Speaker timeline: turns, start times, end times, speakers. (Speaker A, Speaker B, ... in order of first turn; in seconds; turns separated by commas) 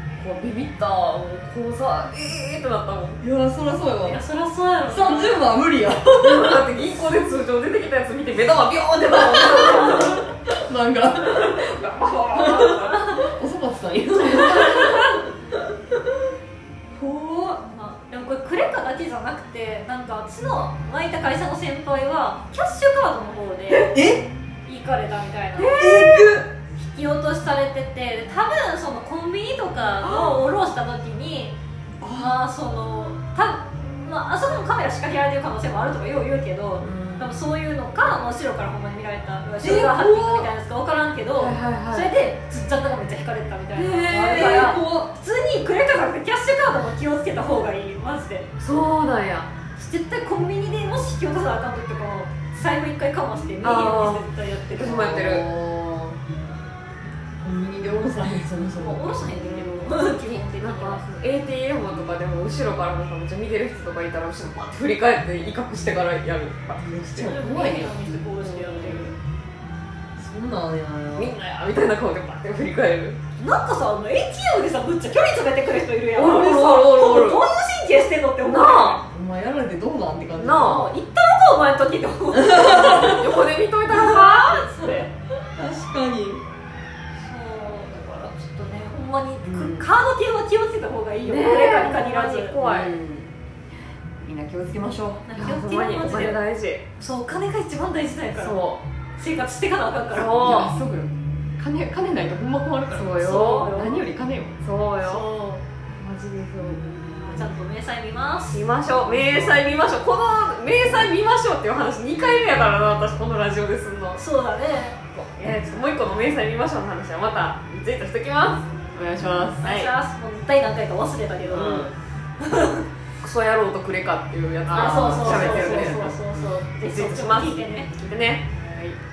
Speaker A: 0.2-3.2, Speaker B: 3.2-4.2, Speaker C: 4.0-5.4, Speaker B: 4.9-6.6, Speaker A: 6.1-10.2, Speaker B: 9.1-15.2, Speaker A: 11.3-13.2, Speaker A: 14.4-14.9, Speaker B: 17.0-17.6, Speaker C: 17.4-23.9, Speaker B: 23.9-24.2, Speaker C: 24.6-25.8, Speaker A: 25.6-26.4, Speaker B: 25.8-26.5, Speaker C: 26.8-31.5, Speaker B: 30.0-30.4, Speaker B: 32.0-32.4, Speaker C: 32.1-48.5, Speaker B: 36.8-37.3, Speaker B: 39.6-40.5, Speaker A: 41.4-42.1, Speaker B: 43.7-45.1, Speaker A: 43.9-44.7, Speaker A: 48.6-49.5, Speaker C: 49.7-55.0, Speaker A: 53.6-55.5, Speaker B: 54.8-56.2, Speaker B: 57.4-59.8, Speaker C: 58.7-61.2, Speaker A: 60.1-67.3, Speaker B: 66.8-68.2, Speaker C: 67.2-69.1, Speaker A: 68.4-69.0, Speaker B: 70.2-71.3, Speaker A: 71.1-73.2, Speaker C: 73.4-79.0, Speaker A: 76.1-77.5, Speaker A: 78.4-79.0, Speaker B: 79.1-80.9, Speaker A: 80.3-80.9, Speaker C: 80.5-83.2, Speaker B: 82.3-83.2, Speaker A: 82.5-84.6, Speaker C: 83.9-85.1, Speaker B: 85.5-86.4, Speaker C: 87.2-92.5, Speaker B: 89.4-89.9, Speaker A: 91.2-92.9, Speaker B: 92.6-93.3, Speaker B: 94.2-95.3, Speaker C: 95.2-96.4, Speaker A: 95.3-96.8, Speaker C: 97.0-98.6, Speaker A: 98.3-98.8, Speaker C: 99.2-100.4, Speaker A: 100.1-100.8, Speaker B: 100.4-104.5, Speaker A: 102.9-103.7, Speaker C: 103.2-104.0, Speaker A: 104.6-105.2, Speaker C: 105.0-105.6, Speaker A: 106.0-107.2, Speaker C: 107.2-108.6, Speaker A: 108.5-114.2, Speaker B: 109.0-109.6, Speaker C: 114.2-115.0, Speaker A: 115.1-118.7, Speaker B: 118.9-119.6, Speaker C: 119.6-121.9, Speaker A: 119.6-119.9, Speaker B: 121.5-121.9, Speaker C: 122.4-122.8, Speaker A: 123.2-126.1, Speaker B: 124.7-126.5, Speaker C: 124.7-127.9, Speaker A: 126.8-128.5, Speaker B: 128.6-128.9